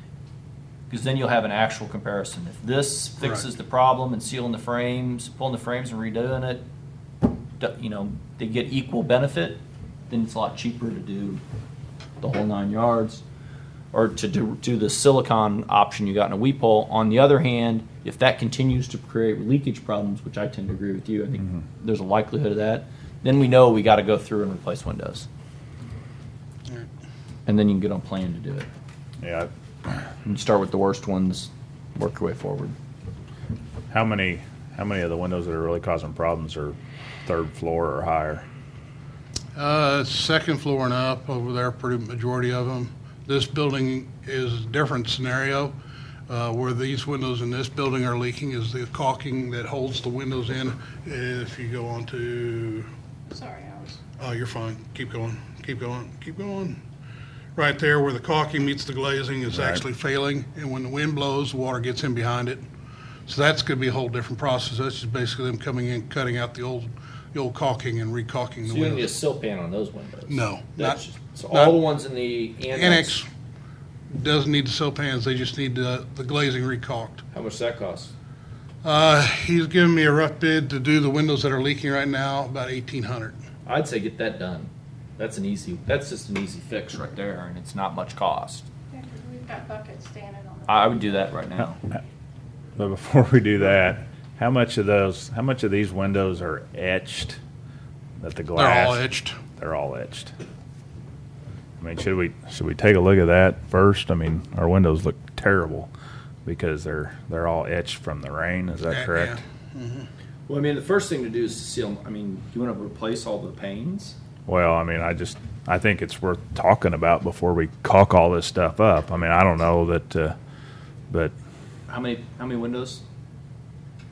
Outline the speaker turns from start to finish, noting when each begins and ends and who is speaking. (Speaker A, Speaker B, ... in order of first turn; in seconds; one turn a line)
Speaker A: 0.9-6.7
Speaker A: 7.6-11.4
Speaker A: 12.2-13.2
Speaker A: 13.9-25.2
Speaker A: 27.4-28.7
Speaker B: 29.2-29.9
Speaker A: 30.2-32.7
Speaker B: 33.9-38.5
Speaker C: 39.5-45.7
Speaker C: 46.3-52.9
Speaker D: 53.3-54.0
Speaker C: 54.2-56.8
Speaker C: 57.5-62.6
Speaker B: 59.5-59.8
Speaker C: 63.3-69.1
Speaker A: 68.6-73.2
Speaker C: 70.3-71.0
Speaker C: 71.5-71.8
Speaker C: 72.7-73.3
Speaker C: 74.1-77.2
Speaker A: 77.3-78.1
Speaker C: 78.8-83.4
Speaker A: 83.6-88.7
Speaker D: 88.9-91.2
Speaker A: 90.7-91.8
Speaker B: 92.8-97.4
Speaker B: 98.2-99.0
Speaker C: 98.5-99.4
Speaker B: 99.6-100.3
Speaker B: 101.8-105.9
Speaker B: 106.4-109.4
Speaker C: 108.9-110.1
Speaker A: 110.5-114.2
Speaker B: 114.5-120.3
Speaker A: 121.9-123.0